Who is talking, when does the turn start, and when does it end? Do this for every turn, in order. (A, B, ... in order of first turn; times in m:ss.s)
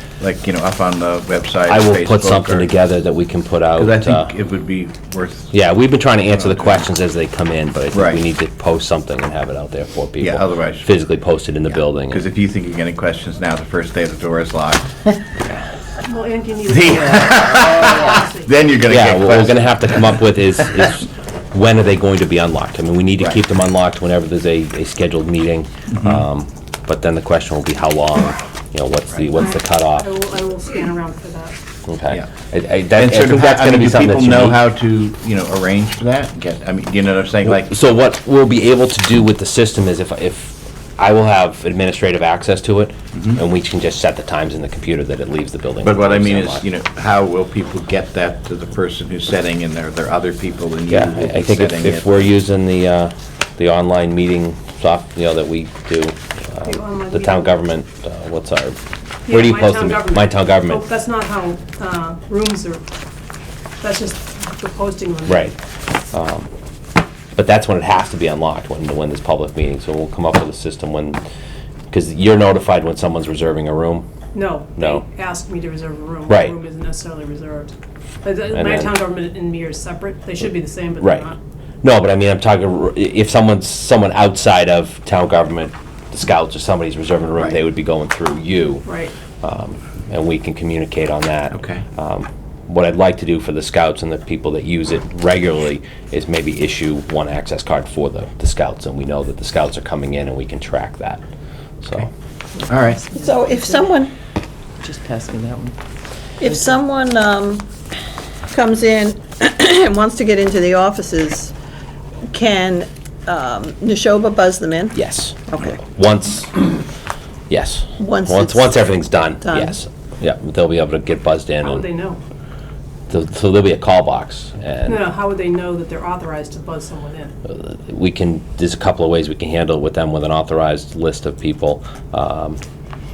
0:00.2-0:02.7 A
0:01.7-0:04.3 B
0:03.8-0:05.5 A
0:05.5-0:12.2 B
0:06.3-0:06.9 A
0:07.9-0:08.2 A
0:10.2-0:10.9 A
0:12.0-0:15.4 A
0:16.0-0:18.5 C
0:16.7-0:20.2 A
0:18.9-0:30.1 B
0:25.9-0:26.2 A
0:29.3-0:31.6 C
0:31.9-0:34.6 B
0:32.9-0:37.7 A
0:37.4-0:46.7 B
0:43.1-0:43.4 A
0:45.8-0:52.3 A
0:50.9-1:00.8 B
0:56.6-0:57.6 C
0:59.2-1:02.8 C
1:03.8-1:05.5 C
1:05.3-1:05.5 B
1:06.1-1:06.5 B
1:07.3-1:11.2 B
1:11.9-1:14.1 B
1:14.3-1:21.4 C
1:14.8-1:15.0 B
1:16.3-1:16.5 B
1:18.5-1:19.0 B
1:21.0-1:21.3 B
1:21.8-1:28.8 B
1:28.8-1:29.1 C
1:29.4-1:41.2 B
1:31.5-1:31.8 A
1:41.8-1:42.1 B
1:42.6-1:44.0 D
1:42.7-1:43.0 A
1:43.1-1:44.1 E
1:44.8-1:45.8 D
1:46.4-1:47.7 E
1:46.4-1:46.7 D
1:48.5-1:51.5 E
1:52.3-1:55.0 E
1:54.9-1:56.6 B
1:57.5-2:01.9 B
1:58.0-1:58.8 E
1:59.4-1:59.8 E
2:01.6-2:02.2 C
2:03.1-2:05.1 B
2:04.9-2:07.3 C
2:07.5-2:12.6 B